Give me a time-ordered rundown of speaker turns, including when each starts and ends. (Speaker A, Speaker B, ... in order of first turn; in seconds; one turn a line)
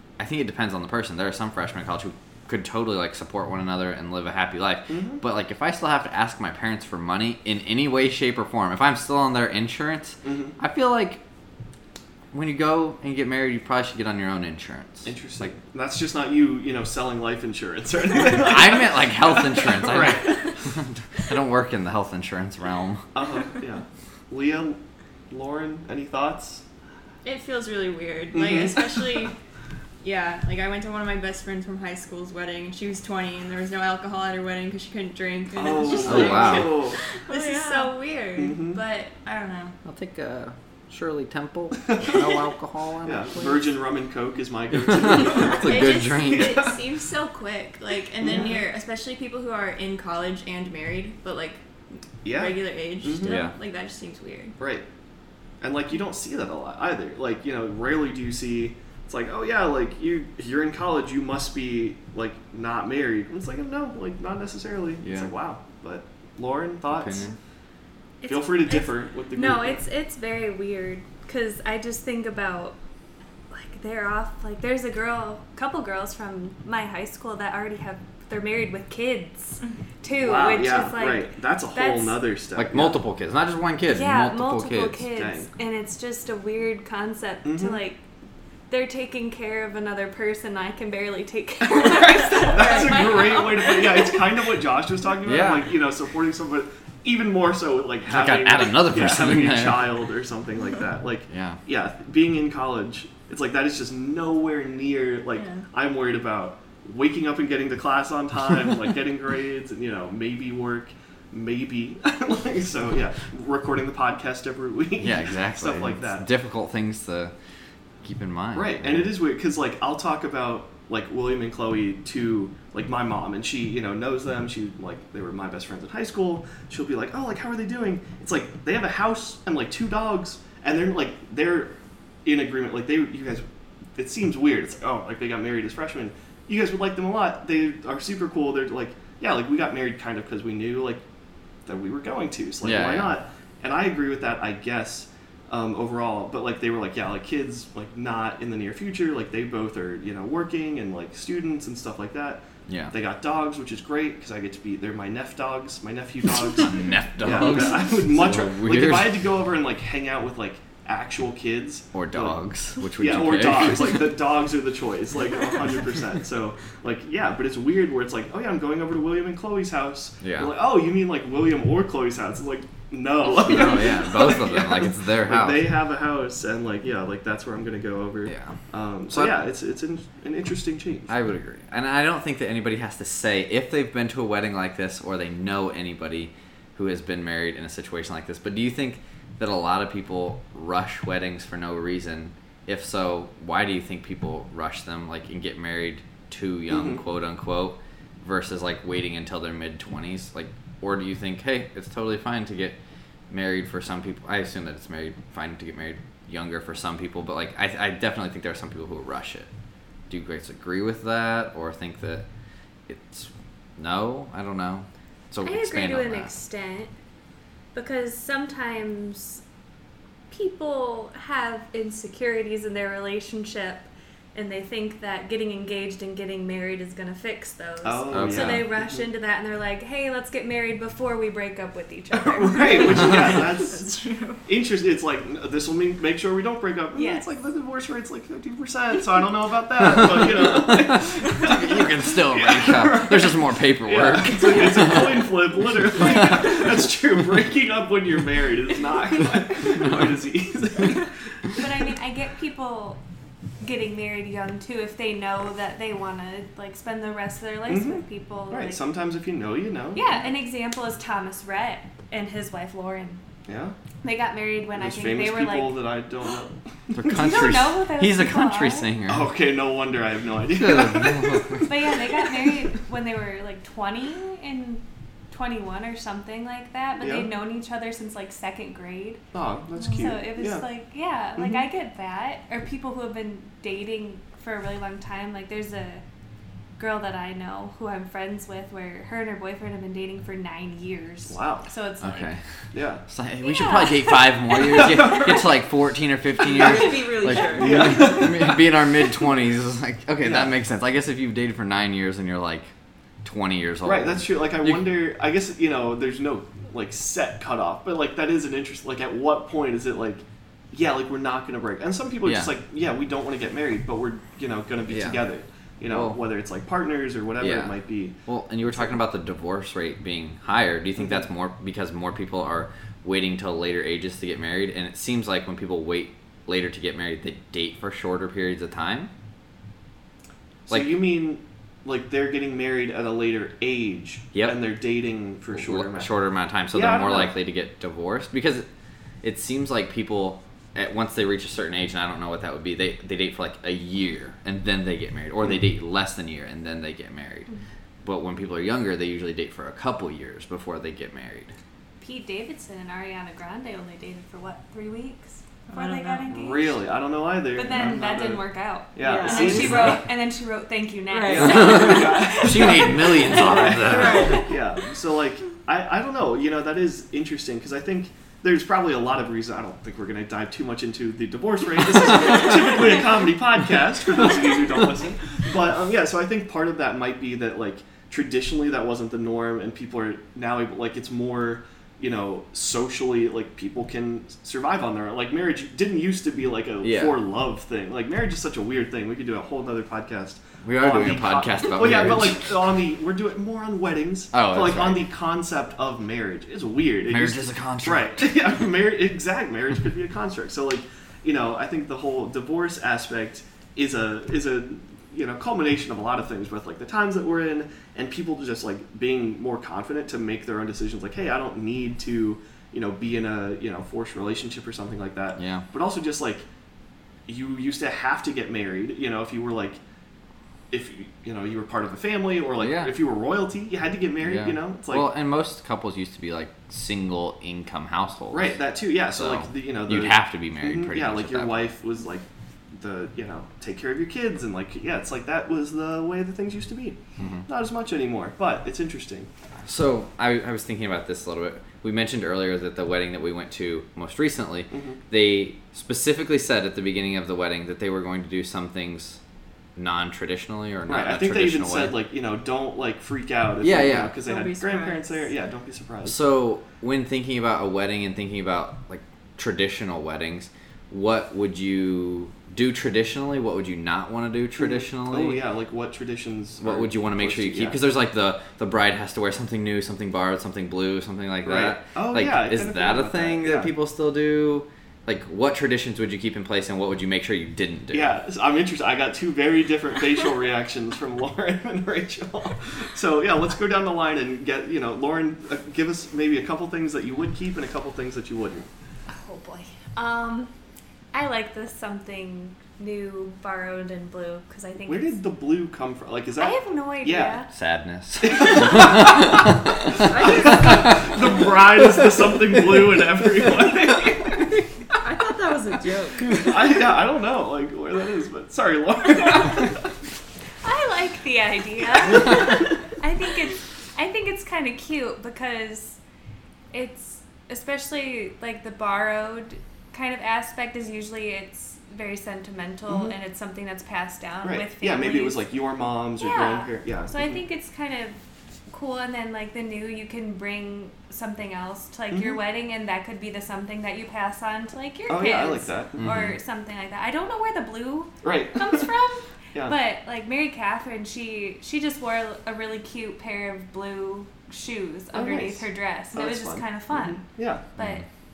Speaker A: 0.2-11.2
Speaker B: 4.9-5.2
Speaker B: 10.2-10.6
Speaker A: 12.3-15.5
Speaker B: 15.0-20.6
Speaker A: 18.2-23.1
Speaker B: 23.1-24.8
Speaker B: 25.3-26.6
Speaker C: 27.2-29.3
Speaker B: 28.3-29.2
Speaker C: 30.0-39.8
Speaker B: 35.5-37.0
Speaker A: 36.0-36.7
Speaker D: 37.3-37.9
Speaker B: 38.4-38.8
Speaker A: 39.8-43.7
Speaker B: 41.9-42.2
Speaker B: 43.0-46.7
Speaker A: 44.7-46.7
Speaker C: 45.5-54.5
Speaker B: 48.2-48.6
Speaker B: 52.2-53.4
Speaker A: 53.2-53.5
Speaker B: 54.6-54.8
Speaker B: 55.6-67.3
Speaker A: 65.0-65.3
Speaker A: 66.9-67.3
Speaker E: 68.2-72.8
Speaker B: 68.2-69.8
Speaker E: 73.5-82.2
Speaker B: 80.2-83.0
Speaker A: 82.5-85.0
Speaker E: 83.9-88.0
Speaker B: 85.1-85.5
Speaker B: 87.4-87.8
Speaker E: 88.7-94.1
Speaker B: 91.7-116.3
Speaker D: 92.5-93.0
Speaker A: 95.2-95.7
Speaker A: 98.1-100.0
Speaker A: 101.3-101.6
Speaker D: 105.4-105.6
Speaker A: 115.0-117.3
Speaker A: 118.0-119.1
Speaker B: 118.5-133.4
Speaker B: 134.0-141.0
Speaker B: 141.7-162.4
Speaker A: 142.6-143.1
Speaker A: 152.7-152.9
Speaker A: 156.6-159.2
Speaker A: 161.9-164.1
Speaker B: 163.0-181.1
Speaker A: 170.2-170.5
Speaker A: 173.3-175.7
Speaker A: 178.3-178.6
Speaker A: 179.1-179.4
Speaker A: 181.1-202.8
Speaker B: 196.7-197.0
Speaker A: 203.3-209.5
Speaker A: 210.1-212.2
Speaker A: 212.9-216.3
Speaker E: 215.4-216.9
Speaker E: 217.7-219.4
Speaker E: 220.3-233.4
Speaker B: 227.8-229.1
Speaker A: 228.1-228.7
Speaker B: 232.1-251.6
Speaker D: 233.0-234.4
Speaker E: 236.9-237.3
Speaker A: 239.8-245.3
Speaker A: 245.9-246.6
Speaker A: 249.8-250.1
Speaker E: 251.6-253.0
Speaker E: 253.6-258.8
Speaker B: 257.7-260.3
Speaker E: 259.9-263.2
Speaker B: 263.5-263.7
Speaker E: 264.0-265.8
Speaker B: 264.7-267.3
Speaker A: 266.9-269.3
Speaker E: 267.1-268.9
Speaker B: 269.1-271.8
Speaker A: 270.5-271.7
Speaker E: 271.6-279.2
Speaker B: 277.0-277.3
Speaker B: 279.3-280.7
Speaker E: 279.8-286.0
Speaker B: 281.4-281.6
Speaker E: 286.8-292.3
Speaker B: 291.3-291.7
Speaker A: 292.0-292.4
Speaker B: 292.7-293.0
Speaker A: 293.1-302.7
Speaker E: 293.4-295.3
Speaker D: 296.4-298.1
Speaker B: 297.5-298.6
Speaker B: 300.2-300.5
Speaker A: 303.2-304.9
Speaker B: 303.8-318.1
Speaker A: 312.2-312.5
Speaker A: 314.9-315.2
Speaker A: 315.9-316.2
Speaker A: 317.4-329.1
Speaker B: 330.7-336.1
Speaker A: 334.3-334.6
Speaker A: 335.5-338.6
Speaker B: 336.7-337.3
Speaker A: 339.2-347.5
Speaker A: 348.0-351.5
Speaker E: 352.0-356.8
Speaker D: 355.7-356.3
Speaker B: 356.3-360.0
Speaker E: 357.5-364.4
Speaker D: 359.0-359.9
Speaker A: 359.7-359.9
Speaker D: 361.1-362.1
Speaker B: 361.2-416.4
Speaker A: 361.6-364.4
Speaker D: 363.8-364.4
Speaker A: 386.8-387.2
Speaker A: 390.6-392.5
Speaker A: 394.3-395.1
Speaker A: 397.1-398.3
Speaker A: 415.4-415.6
Speaker B: 417.3-419.8
Speaker B: 420.7-425.1
Speaker A: 422.6-422.9
Speaker A: 424.2-428.6
Speaker B: 428.3-439.3
Speaker A: 429.1-431.7
Speaker A: 437.2-437.5
Speaker A: 439.6-449.2
Speaker B: 444.7-445.0
Speaker A: 449.8-452.0
Speaker B: 450.9-456.2
Speaker A: 453.6-454.1
Speaker D: 454.2-455.3
Speaker A: 456.0-465.4
Speaker B: 464.6-467.8
Speaker A: 466.6-478.1
Speaker B: 471.4-473.7
Speaker B: 477.9-488.7
Speaker E: 489.1-490.5
Speaker E: 491.1-495.2
Speaker B: 494.9-497.4
Speaker E: 496.4-497.5
Speaker A: 497.5-499.9
Speaker B: 498.2-504.6
Speaker D: 500.0-501.0
Speaker A: 500.6-500.9
Speaker D: 505.0-506.5
Speaker B: 506.3-509.9
Speaker E: 510.6-516.0
Speaker B: 512.0-512.5
Speaker E: 516.7-525.5
Speaker B: 522.9-523.1
Speaker B: 524.4-527.4
Speaker E: 526.2-528.2
Speaker E: 528.7-547.2
Speaker B: 532.1-532.4
Speaker B: 535.1-536.2
Speaker A: 536.0-536.4
Speaker B: 538.2-538.9
Speaker B: 545.1-547.6
Speaker E: 547.8-548.0
Speaker A: 547.8-548.0